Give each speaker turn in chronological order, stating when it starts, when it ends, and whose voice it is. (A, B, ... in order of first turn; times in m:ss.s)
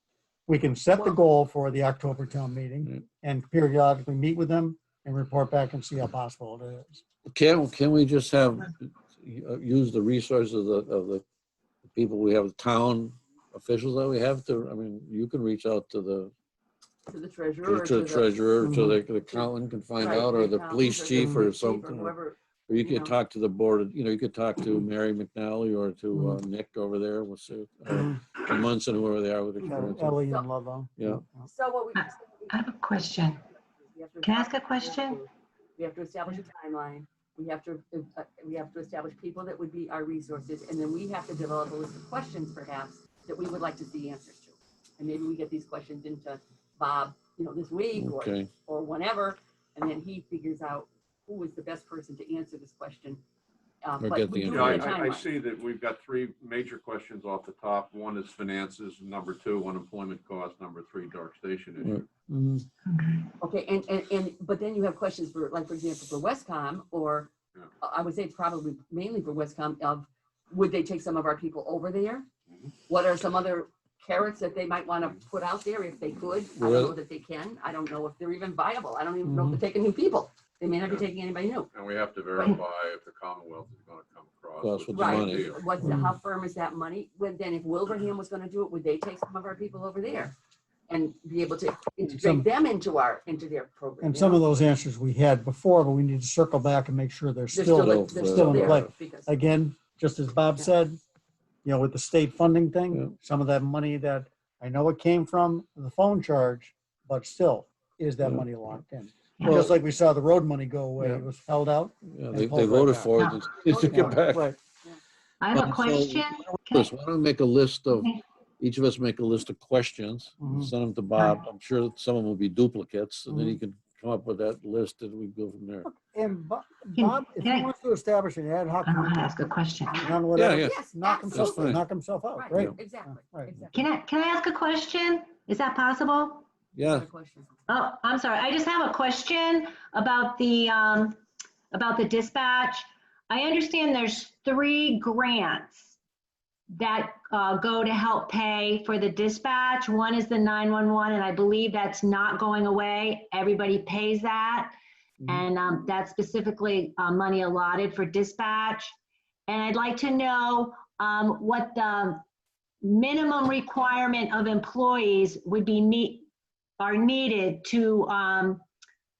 0:00.5-0:07.0 A
0:07.2-0:11.2 B
0:11.8-0:16.3 B
0:17.1-0:18.4 C
0:17.6-0:22.1 B
0:18.6-0:19.0 A
0:20.0-0:23.1 C
0:21.2-0:21.4 A
0:22.7-0:30.2 B
0:27.9-0:28.2 A
0:29.6-0:31.5 A
0:31.0-0:31.2 B
0:31.4-0:32.6 C
0:31.9-0:33.4 D
0:33.8-0:53.2 C
0:34.2-0:35.2 D
0:48.0-0:48.5 B
0:53.8-0:55.3 C
0:54.0-0:54.9 B
0:54.5-1:02.0 E
1:02.3-1:02.6 A
1:02.9-1:03.2 D
1:03.4-1:12.2 C
1:12.5-1:12.7 E
1:12.9-1:21.7 C
1:16.6-1:16.9 B
1:19.2-1:19.6 A
1:21.7-1:25.6 E
1:24.6-1:25.5 B
1:24.9-1:30.3 C
1:25.8-1:26.1 A
1:30.9-1:34.4 C
1:32.0-1:32.4 A
1:34.0-1:41.0 A
1:37.5-1:39.3 C
1:37.7-1:38.9 B
1:41.6-1:53.1 A
1:49.4-1:49.7 D
1:51.0-1:51.3 B
1:52.1-1:54.4 B
1:53.6-1:54.2 C
1:53.8-1:54.6 A
1:55.4-1:56.9 D
1:55.5-2:05.9 B
2:00.4-2:00.7 A
2:01.2-2:01.4 D
2:03.3-2:03.6 A
2:05.9-2:09.2 A
2:07.0-2:07.7 D
2:08.8-2:10.1 D
2:09.9-2:13.5 A
2:10.4-2:10.8 B
2:10.6-2:11.7 C
2:11.3-2:11.8 B
2:12.3-2:13.8 C
2:13.7-2:16.4 D
2:16.7-2:17.1 B
2:16.8-2:17.6 C
2:17.7-2:21.2 D
2:21.7-2:26.0 D
2:26.7-2:34.7 D
2:35.2-2:38.9 D
2:39.5-2:42.2 D
2:42.8-2:46.3 D
2:46.8-2:48.6 D